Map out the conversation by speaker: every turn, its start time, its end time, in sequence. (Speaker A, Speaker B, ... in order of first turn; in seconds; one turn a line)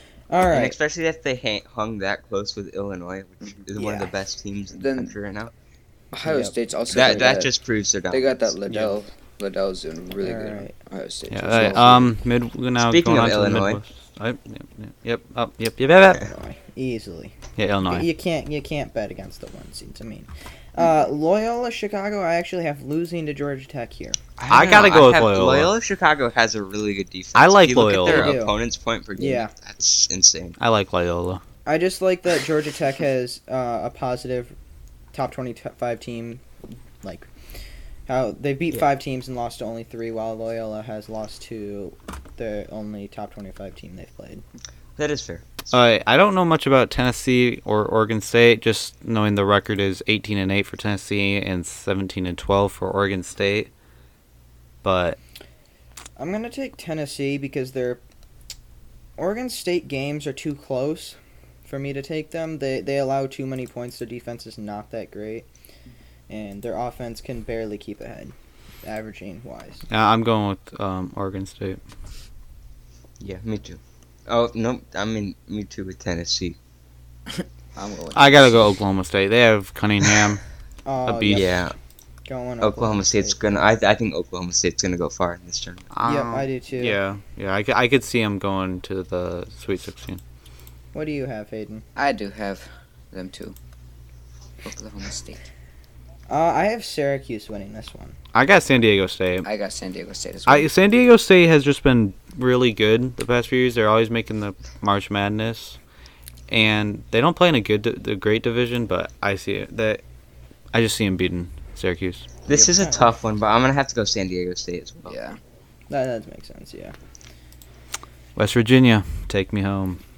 Speaker A: 0.3-0.8
Speaker B: 0.5-5.5
Speaker C: 3.4-4.1
Speaker C: 4.7-5.1
Speaker C: 6.1-7.5
Speaker A: 6.2-7.4
Speaker B: 6.9-8.4
Speaker C: 8.1-12.2
Speaker A: 10.2-10.7
Speaker D: 11.3-16.3
Speaker B: 12.8-13.8
Speaker A: 16.2-24.2
Speaker D: 17.6-18.1
Speaker B: 24.4-30.6
Speaker D: 24.5-25.7
Speaker D: 27.4-28.4
Speaker A: 28.0-28.6
Speaker A: 29.2-29.5
Speaker D: 30.6-31.4
Speaker A: 31.7-34.5
Speaker A: 35.1-36.4
Speaker A: 37.0-37.3
Speaker A: 38.1-44.4
Speaker B: 45.0-45.8
Speaker D: 45.7-53.7
Speaker D: 54.8-55.2
Speaker A: 56.2-58.0
Speaker A: 59.2-65.5
Speaker A: 66.3-69.8
Speaker D: 69.9-71.8
Speaker B: 73.2-76.6
Speaker C: 77.8-78.6
Speaker D: 78.1-80.4
Speaker A: 80.8-81.7
Speaker D: 81.0-81.6
Speaker B: 81.3-81.8
Speaker A: 82.3-83.4
Speaker B: 82.6-85.9
Speaker D: 85.9-90.2
Speaker A: 86.0-87.0
Speaker A: 90.9-91.8
Speaker C: 92.0-93.6
Speaker C: 94.6-95.4
Speaker A: 96.3-98.2
Speaker D: 98.3-99.5
Speaker C: 99.4-100.7
Speaker D: 100.5-105.8
Speaker D: 106.5-110.0
Speaker D: 110.7-112.3
Speaker B: 112.5-115.2
Speaker A: 112.8-113.1
Speaker C: 115.1-115.4
Speaker A: 115.9-117.0
Speaker D: 118.4-120.0